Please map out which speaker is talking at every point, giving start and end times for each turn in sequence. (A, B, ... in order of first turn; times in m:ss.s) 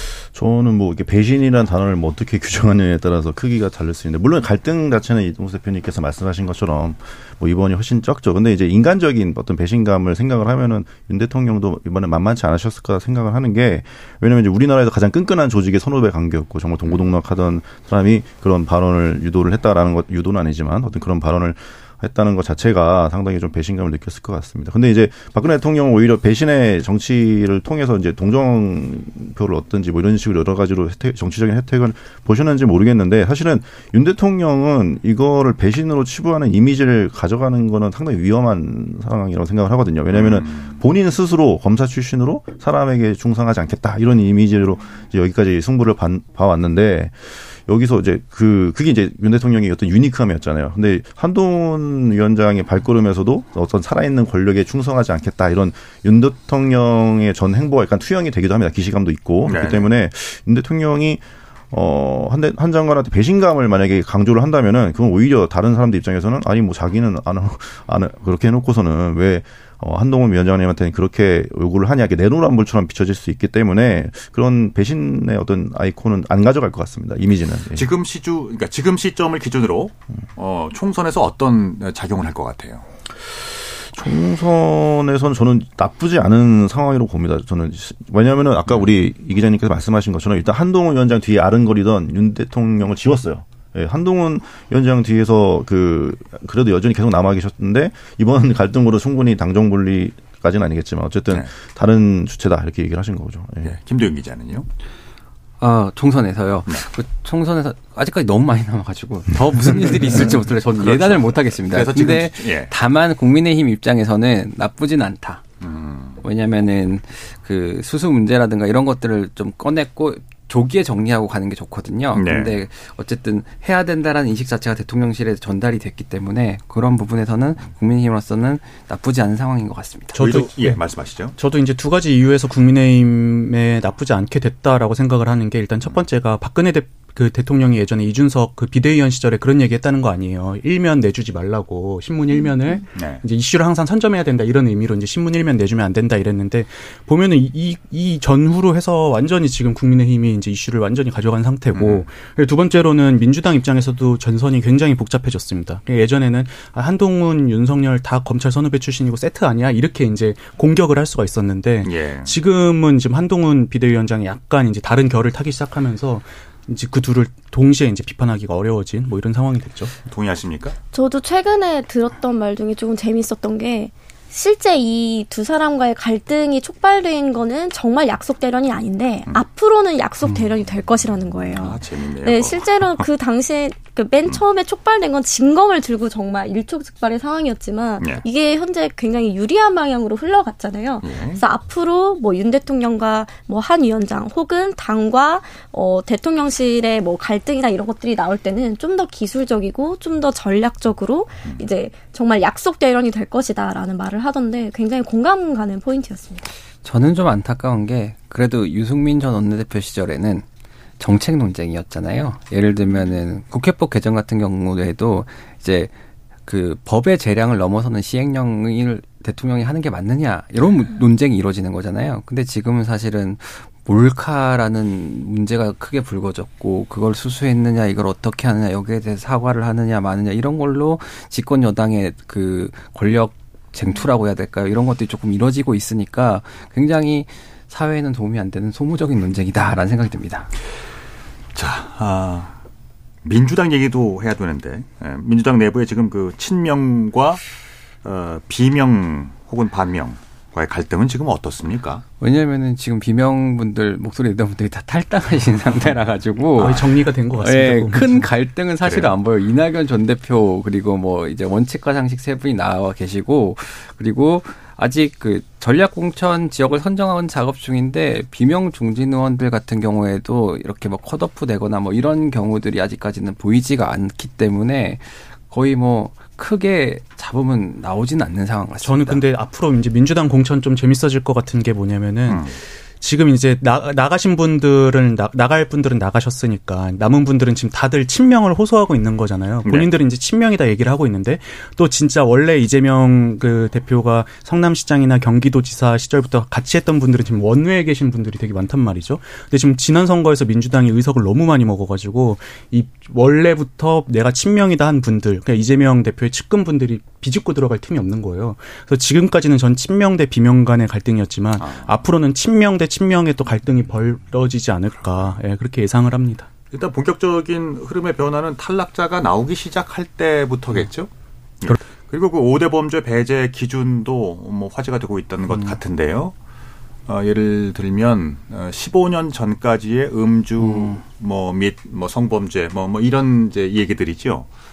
0:00.3-1:17.9 A
0:40.1-0:40.8 B
0:59.4-0:59.9 B
1:17.7-1:22.8 B
1:23.4-1:43.8 A
1:43.6-1:44.7 B
1:45.6-1:55.4 C
1:50.8-1:52.7 B
1:55.6-1:56.2 B
1:56.2-2:10.1 C
2:02.1-2:02.6 B
2:10.1-2:10.8 D
2:10.1-2:11.3 B
2:11.4-2:49.9 D
2:22.9-2:23.2 B
2:31.7-2:32.0 B
2:41.8-2:42.3 B
2:50.1-2:50.8 B
2:50.9-3:26.5 E
3:01.6-3:03.0 B
3:11.0-3:11.4 B
3:26.8-3:30.4 C
3:31.0-3:35.9 C
3:36.4-4:00.5 C
4:01.5-4:02.5 B
4:03.2-4:07.4 B
4:08.0-4:12.0 B
4:12.2-4:16.8 C
4:16.6-4:18.3 D
4:17.3-4:39.2 C
4:18.8-4:19.1 B
4:38.8-5:16.5 D
4:42.3-4:42.5 B
5:11.6-5:11.9 B
5:16.7-5:21.1 B
5:21.6-5:26.3 B
5:27.1-5:34.5 B